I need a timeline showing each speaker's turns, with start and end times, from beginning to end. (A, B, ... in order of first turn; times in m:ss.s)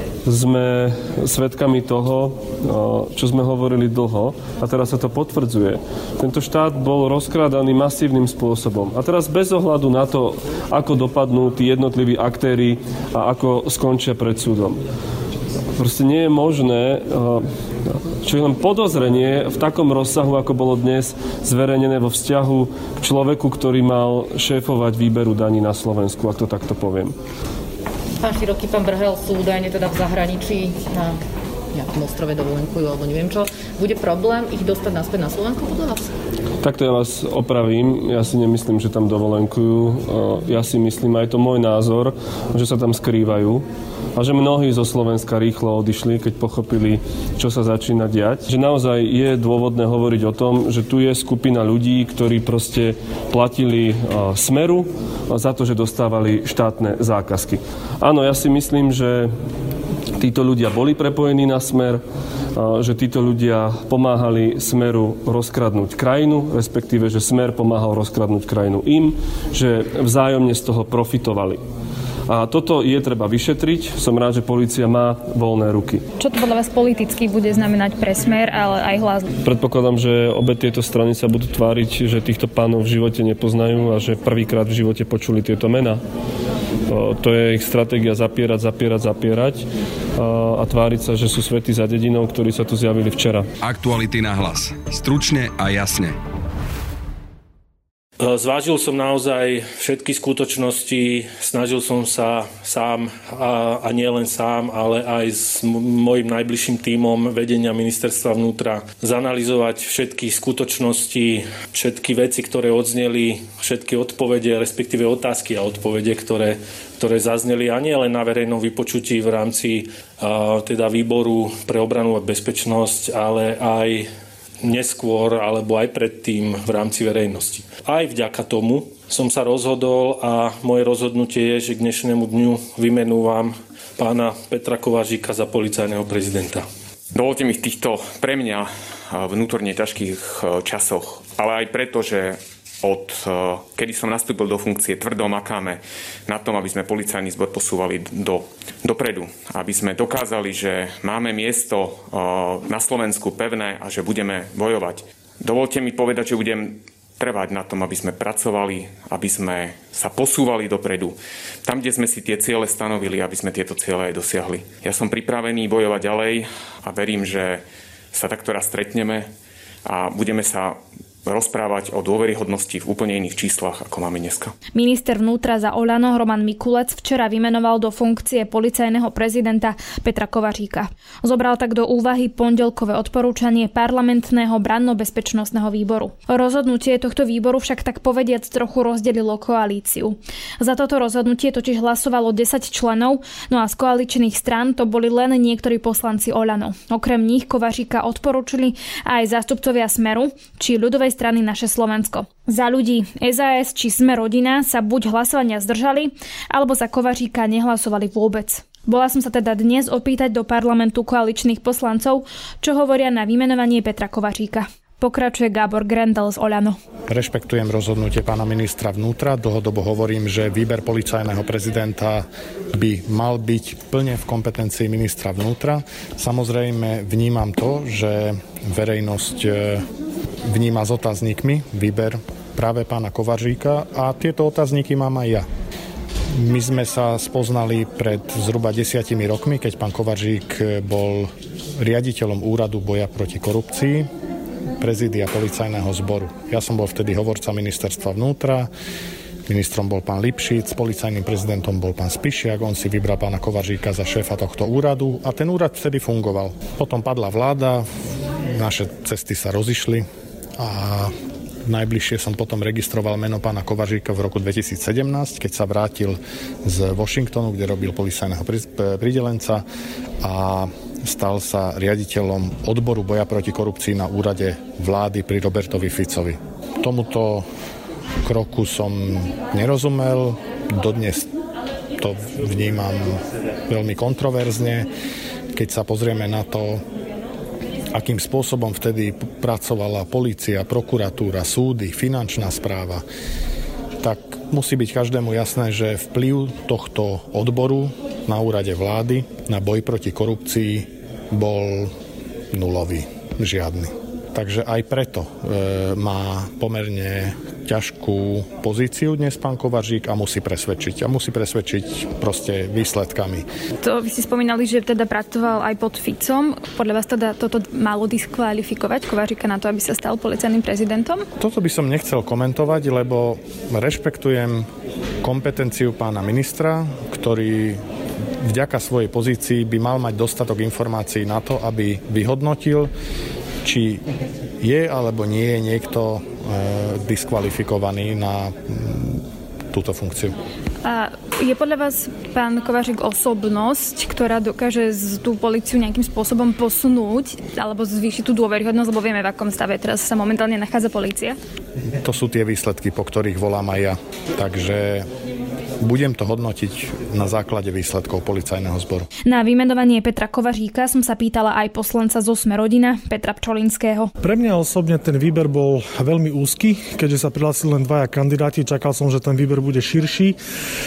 0:00.2-0:14.8 A
0:15.8-0:17.5 A
0:18.2-0:27.2 A
0:28.2-0:31.2 B
0:31.7-0:36.1 B
0:36.6-0:59.3 A
1:00.2-1:02.0 A
1:02.5-1:11.6 A
1:12.3-1:16.0 A
1:16.2-1:19.3 C
1:19.4-1:26.0 A
1:26.9-1:33.5 A
1:33.6-1:36.2 D
1:38.2-2:04.1 E
2:04.6-2:16.6 E
2:17.1-2:49.3 F
2:49.8-2:54.5 F
2:54.7-3:36.8 C
3:37.1-3:49.9 G
3:50.5-3:55.5 G
3:56.3-4:04.1 G
4:04.8-4:08.7 G
4:09.5-4:17.8 G
4:18.5-4:29.6 G
4:30.2-4:37.5 G
4:38.2-4:41.3 G
4:42.0-4:44.9 G
4:45.5-4:46.8 G
4:47.9-4:53.0 G
4:54.0-5:01.9 G
5:02.5-5:13.5 G
5:13.8-5:21.2 C
5:21.4-5:24.7 G
5:25.2-5:27.8 G
5:28.4-5:32.9 G
5:33.6-5:34.0 G
5:34.6-5:40.4 G
5:40.8-5:51.4 C
5:52.0-5:55.1 G
5:55.8-5:59.1 G
5:59.2-6:04.1 C
6:04.2-6:10.4 H